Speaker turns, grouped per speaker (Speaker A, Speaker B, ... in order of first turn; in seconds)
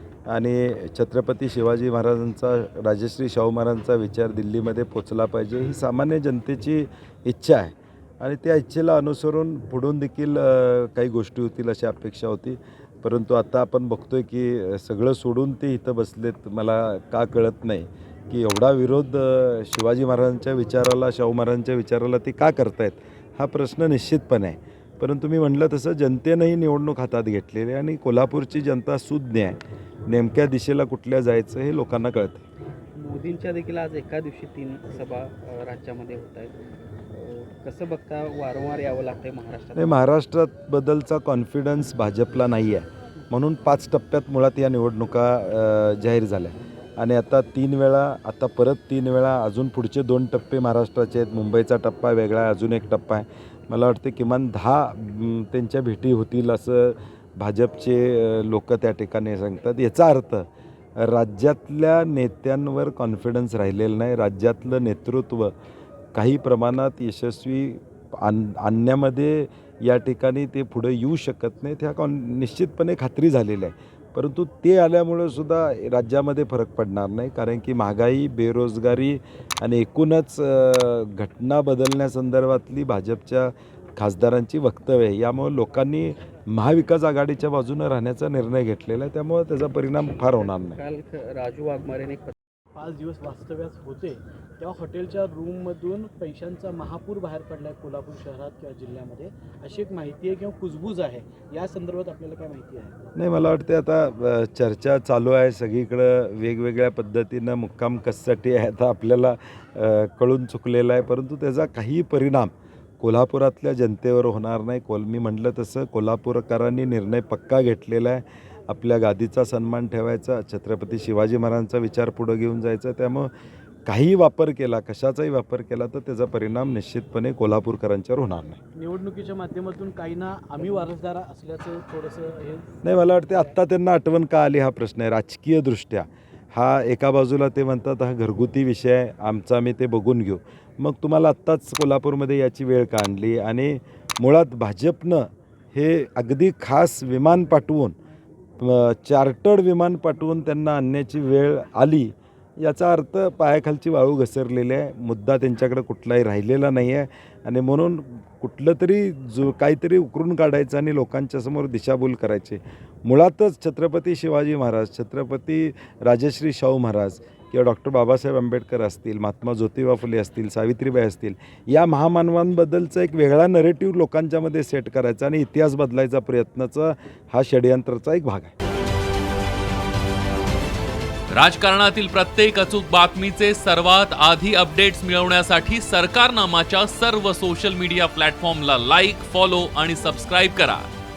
Speaker A: 0.2-32.4, 39.8-65.5, 66.1-90.8, 103.1-123.3, 123.8-128.6, 132.8-147.9, 148.6-178.5
Speaker B: 32.9-36.6, 37.1-40.0, 90.2-92.3
Speaker C: 92.7-102.9, 128.7-133.4
Speaker D: 181.3-190.9